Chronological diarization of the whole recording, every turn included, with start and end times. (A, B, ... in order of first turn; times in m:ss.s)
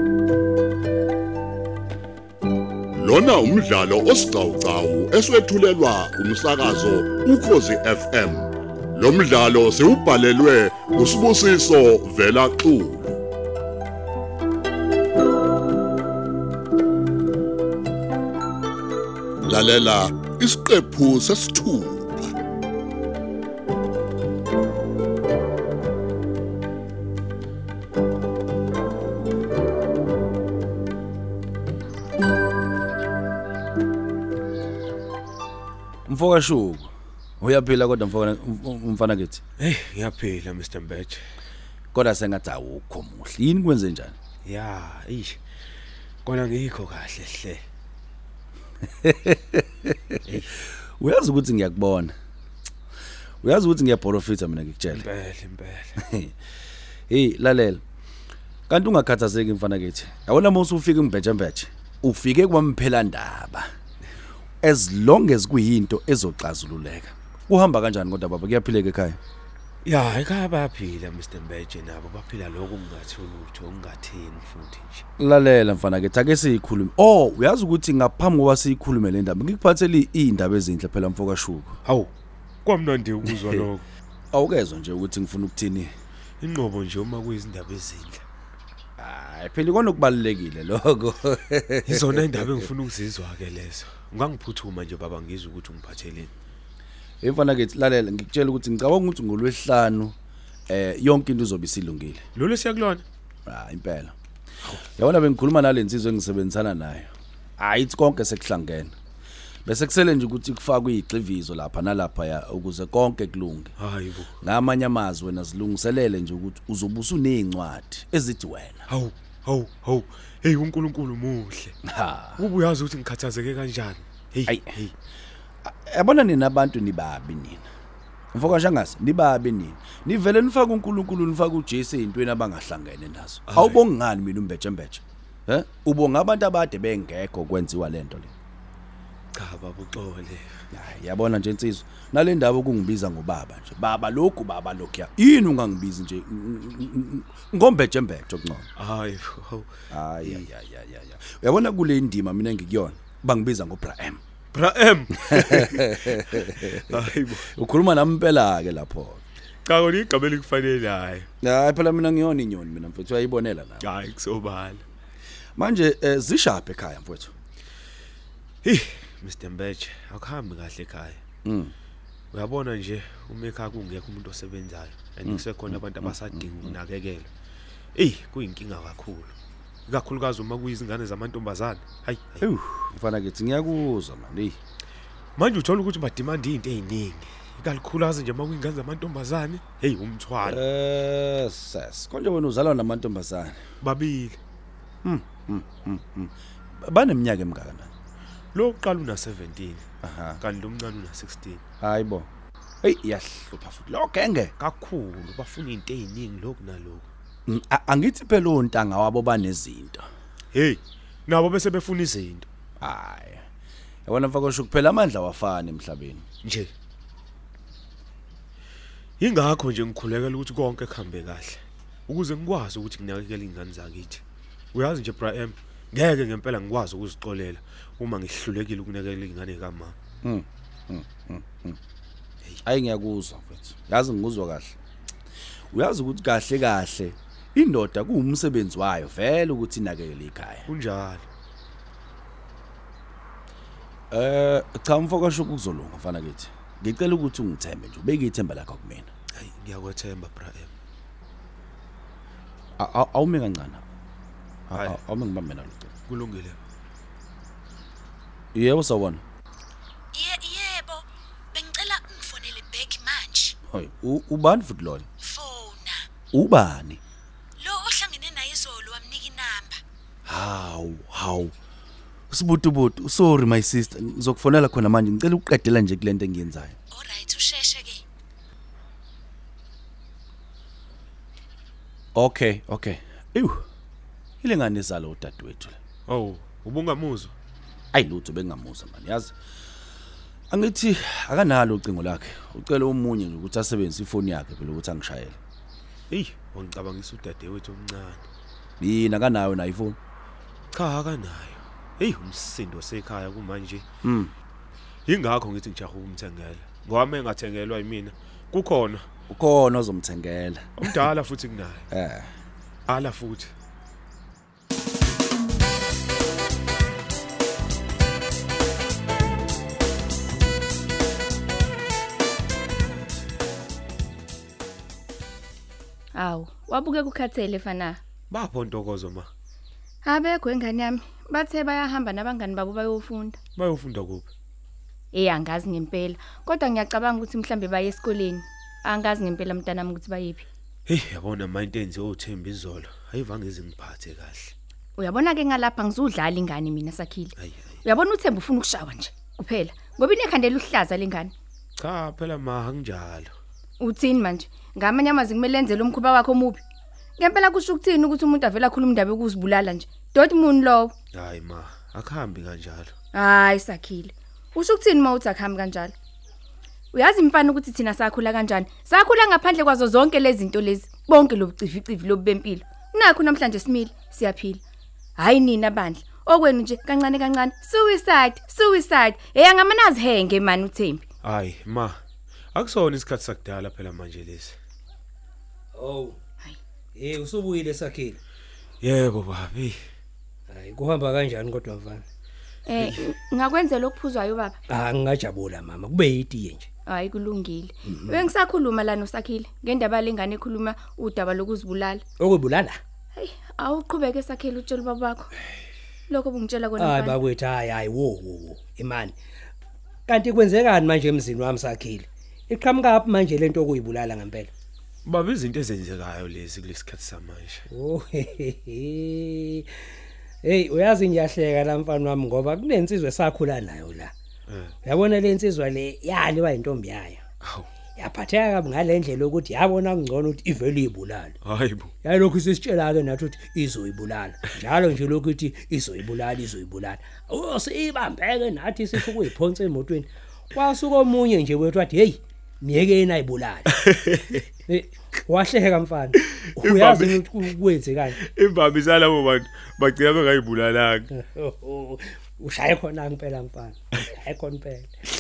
0:03.0-0:13.2 A
0:19.4-0:22.3 A
0:36.1-0:39.4 B
0:39.6-0:41.2 C
0:41.9-0:44.2 B
0:44.4-0:45.4 C
0:46.2-0:47.6 C
0:48.8-0:52.1 B
0:50.2-0:50.6 C
0:53.4-0:55.1 B
0:54.9-0:56.0 C
0:56.0-0:56.3 B
0:57.1-0:57.8 B
0:58.7-1:03.7 B
1:04.6-1:09.2 B
1:09.8-1:15.0 C
1:15.2-1:21.8 B
1:21.8-1:22.1 C
1:22.6-1:23.9 C
1:24.3-1:25.9 B
1:26.4-1:28.2 C
1:29.0-1:32.5 B
1:31.8-1:36.3 C
1:37.2-1:40.2 B
1:40.7-1:42.2 B
1:42.4-1:43.0 C
1:43.5-1:44.2 B
1:44.8-1:49.0 B
1:49.7-1:53.7 B
1:53.8-1:54.4 C
1:54.4-1:58.9 B
1:58.9-2:01.8 C
2:01.8-2:02.4 B
2:02.4-2:04.9 C
2:04.5-2:04.7 B
2:05.6-2:07.7 B
2:08.3-2:18.3 B
2:13.5-2:13.8 C
2:19.3-2:20.6 C
2:20.7-2:28.7 B
2:28.8-2:30.4 C
2:29.9-2:34.2 B
2:34.5-2:37.5 C
2:35.3-2:39.2 B
2:39.6-2:41.3 C
2:41.4-2:43.9 B
2:43.8-2:44.8 C
2:45.6-2:47.3 B
2:48.6-2:51.2 C
2:51.4-2:51.7 B
2:52.3-2:57.3 C
2:55.2-2:56.6 B
2:58.0-2:59.3 C
2:59.9-3:02.4 C
3:02.4-3:04.6 B
3:05.4-3:10.6 C
3:10.4-3:13.6 B
3:13.8-3:14.4 C
3:15.0-3:17.9 B
3:18.5-3:19.8 C
3:20.0-3:20.4 B
3:20.4-3:21.6 C
3:21.8-3:22.3 B
3:22.8-3:24.5 B
3:24.6-3:27.1 C
3:27.5-3:30.1 B
3:30.5-3:32.5 C
3:32.8-3:33.5 B
3:34.1-3:36.2 B
3:36.4-3:36.7 C
3:39.2-3:44.2 C
3:44.7-3:50.0 C
3:50.2-3:51.8 B
3:52.6-3:54.8 B
3:55.7-4:00.7 B
4:00.7-4:01.3 C
4:04.1-4:09.1 B
4:09.4-4:10.7 C
4:12.8-4:13.8 B
4:14.7-4:15.9 B
4:14.7-4:15.0 C
4:16.1-4:16.6 C
4:18.5-4:19.2 B
4:20.1-4:23.6 D
4:23.7-4:25.1 B
4:25.2-4:26.0 D
4:26.3-4:27.0 B
4:27.6-4:29.8 D
4:30.2-4:31.5 B
4:32.3-4:36.8 B
4:36.9-4:38.0 D
4:42.2-4:43.6 B
4:44.4-4:45.8 B
4:46.1-4:47.3 C
4:47.9-4:49.3 B
4:50.5-4:55.4 B
4:56.1-4:58.2 C
4:58.8-5:00.0 B
5:00.7-5:03.9 C
5:04.0-5:04.3 B
5:05.1-5:09.1 C
5:09.3-5:11.0 B
5:10.8-5:11.9 C
5:11.9-5:12.3 B
5:12.9-5:13.5 C
5:26.1-5:28.0 E
5:28.3-5:29.3 C
5:30.0-5:33.4 E
5:33.6-5:34.3 C
5:35.1-5:40.4 E
5:40.9-5:44.5 C
5:45.0-5:47.3 E
5:47.4-5:47.6 C
5:47.8-5:51.3 E
5:51.8-5:53.3 C
5:53.8-5:56.6 E
5:57.2-6:00.9 E
6:01.1-6:02.9 C
6:03.1-6:06.0 E
6:06.9-6:14.6 E
6:15.2-6:21.0 E
6:21.2-6:22.0 C
6:22.5-6:24.6 C
6:25.7-6:26.2 F
6:27.0-6:28.2 F
6:28.8-6:29.8 C
6:30.5-6:32.0 F
6:32.7-6:34.6 E
6:32.8-6:33.0 C
6:34.7-6:36.7 F
6:36.9-6:42.0 E
6:37.9-6:38.2 F
6:42.2-6:42.8 F
6:43.2-6:45.3 E
6:46.1-6:47.2 E
6:46.8-6:49.2 F
6:50.1-6:54.5 F
6:55.1-6:57.6 C
6:57.7-6:59.7 F
7:00.4-7:04.1 F
7:04.5-7:04.8 C
7:04.8-7:07.2 F
7:07.4-7:07.7 C
7:08.0-7:11.4 F
7:11.4-7:11.9 C
7:12.0-7:23.7 F
7:23.7-7:24.4 C
7:24.7-7:28.2 F
7:26.2-7:27.3 C
7:28.2-7:31.1 C
7:31.1-7:34.9 F